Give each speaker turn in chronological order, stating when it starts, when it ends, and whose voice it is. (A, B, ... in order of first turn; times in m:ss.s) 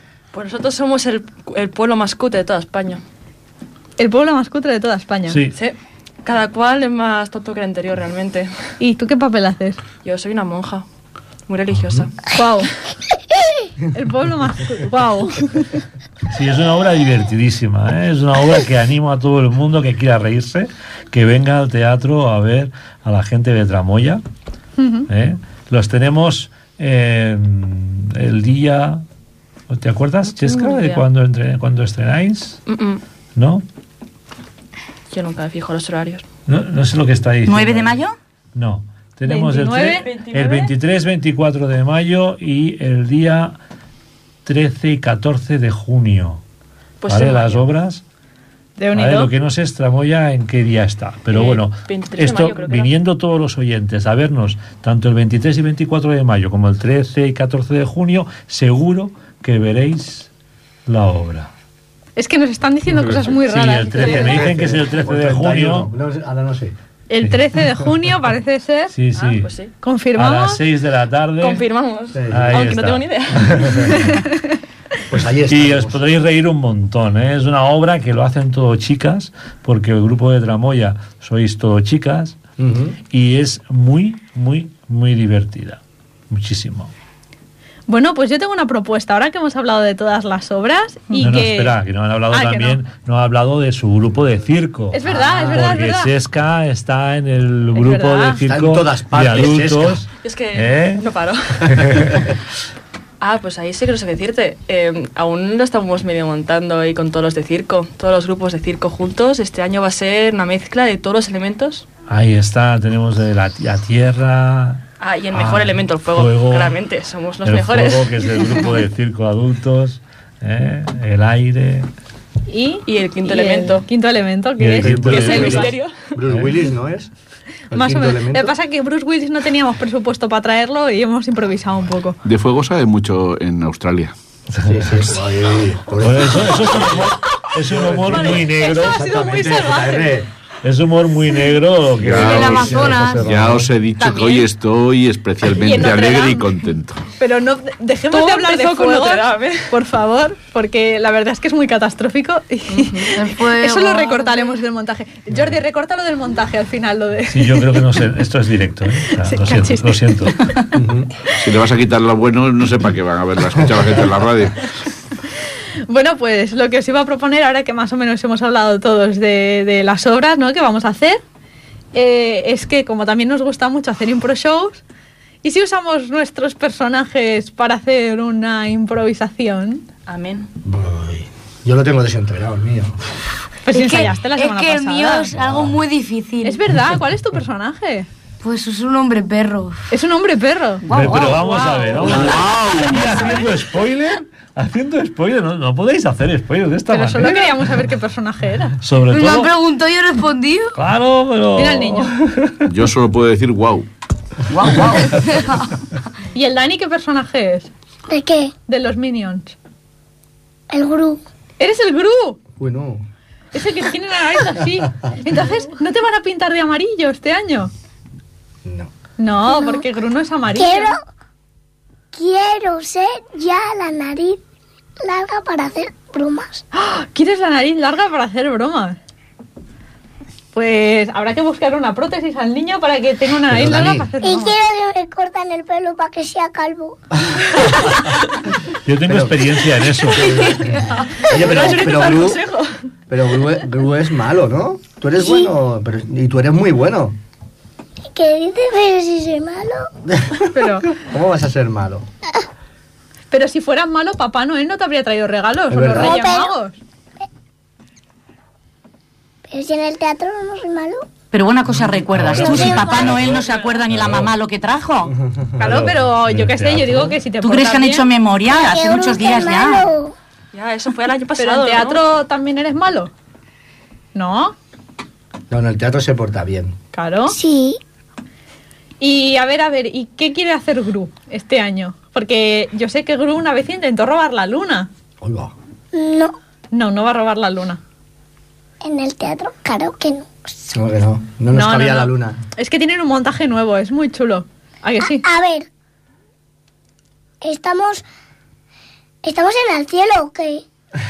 0:00.3-0:03.0 A
0:04.0-0:05.4 B
0:05.3-0:05.6 C
0:05.5-0:08.5 A
0:08.8-0:09.8 B
0:10.0-0:10.8 A
0:11.5-0:12.2 A
0:12.3-0:12.7 B
0:13.9-0:15.8 B
0:16.3-0:24.2 C
0:24.8-0:25.0 B
0:25.1-0:29.0 C
0:29.7-0:32.6 C
0:30.4-0:31.0 A
0:32.7-0:33.0 A
0:33.3-0:33.6 C
0:35.1-0:36.2 A
0:36.5-0:38.0 C
0:37.4-0:38.1 D
0:38.5-0:43.6 C
0:39.2-0:40.1 B
0:39.8-0:40.8 A
0:44.4-0:46.4 C
0:47.0-0:47.6 A
0:47.1-0:48.0 C
0:48.8-0:49.3 B
0:48.9-1:00.3 C
0:51.3-0:53.0 A
1:00.8-1:01.5 C
1:02.2-1:04.4 B
1:03.3-1:05.9 C
1:04.0-1:06.7 E
1:07.1-1:08.9 B
1:07.2-1:07.5 C
1:08.9-1:09.5 C
1:09.1-1:09.7 A
1:09.8-1:10.6 B
1:10.1-1:11.6 C
1:11.4-1:13.8 A
1:12.1-1:12.6 E
1:12.3-1:13.8 C
1:13.6-1:14.0 E
1:13.9-1:14.2 B
1:15.1-1:16.0 E
1:15.5-1:22.4 C
1:22.6-1:23.0 E
1:23.0-1:26.9 C
1:27.9-1:31.8 B
1:31.1-1:41.0 C
1:32.3-1:32.8 B
1:34.9-1:36.1 B
1:35.1-1:35.5 E
1:37.7-1:38.4 B
1:38.4-1:40.0 E
1:40.2-1:41.9 A
1:43.2-1:51.8 A
1:52.1-1:54.8 C
1:55.0-1:58.7 A
1:55.3-1:56.8 C
1:57.4-2:01.9 C
2:02.5-2:05.7 B
2:02.8-2:03.8 A
2:04.6-2:05.7 C
2:04.8-2:07.1 E
2:05.0-2:06.1 A
2:06.3-2:06.6 C
2:07.7-2:08.5 E
2:07.7-2:12.2 B
2:12.2-2:14.1 F
2:14.6-2:15.1 C
2:14.7-2:20.3 E
2:16.0-2:19.0 C
2:18.1-2:20.2 B
2:20.6-2:23.1 C
2:22.0-2:27.0 F
2:22.1-2:23.3 G
2:22.2-2:23.7 E
2:24.0-2:24.4 G
2:25.5-2:26.5 B
2:27.2-2:37.8 B
2:28.1-2:29.7 A
2:32.8-2:34.6 G
2:37.3-2:40.3 C
2:39.1-2:40.5 B
2:40.7-2:41.1 E
2:41.3-2:44.7 F
2:45.9-2:51.2 B
2:51.9-2:54.8 B
2:55.4-2:59.8 B
3:00.1-3:00.5 A
3:00.6-3:03.0 E
3:03.6-3:05.3 B
3:03.7-3:06.6 G
3:05.4-3:05.7 E
3:06.4-3:08.1 B
3:08.4-3:09.8 G
3:09.9-3:12.2 B
3:10.9-3:17.5 C
3:10.9-3:11.4 G
3:16.9-3:18.8 B
3:18.8-3:19.5 C
3:19.1-3:20.8 G
3:20.7-3:22.6 C
3:21.6-3:22.1 B
3:22.6-3:23.8 F
3:24.5-3:25.2 D
3:26.3-3:27.7 B
3:28.1-3:28.5 H
3:28.7-3:29.5 B
3:30.7-3:31.2 H
3:31.6-3:32.4 B
3:32.6-3:33.0 E
3:33.5-3:37.7 B
3:39.2-3:40.9 B
3:39.5-3:39.8 H
3:40.5-3:41.0 H
3:42.1-3:44.4 H
3:45.0-3:46.6 H
3:46.7-3:49.0 B
3:50.5-3:54.5 B
3:53.5-3:54.1 E
3:54.2-3:57.0 H
3:58.8-4:00.3 C
3:59.1-3:59.4 E
4:00.2-4:00.6 A
4:00.2-4:02.4 E
4:01.2-4:02.8 A
4:03.1-4:07.1 E
4:05.2-4:05.5 H
4:08.1-4:09.9 H
4:10.1-4:10.4 E
4:10.5-4:10.9 B
4:11.0-4:12.0 E
4:13.3-4:16.8 B
4:15.7-4:16.2 E
4:15.9-4:16.5 H
4:19.5-4:21.0 H
4:21.3-4:25.1 D
4:21.7-4:23.4 C
4:22.3-4:23.4 H
4:25.1-4:26.0 E
4:25.6-4:28.0 B
4:26.2-4:27.1 C
4:27.4-4:29.9 D
4:28.5-4:30.1 H
4:30.5-4:32.0 A
4:31.4-4:33.1 B
4:34.1-4:34.5 B
4:35.5-4:36.7 E
4:36.9-4:37.4 B
4:37.3-4:37.8 H
4:39.0-4:44.9 B
4:45.2-4:45.5 E
4:45.9-4:46.3 H
4:46.7-4:47.8 B
4:48.8-4:50.4 H
4:50.7-4:52.4 E
4:51.5-4:55.2 B
4:55.1-4:55.7 H
4:57.4-4:58.0 H
4:59.2-5:00.6 H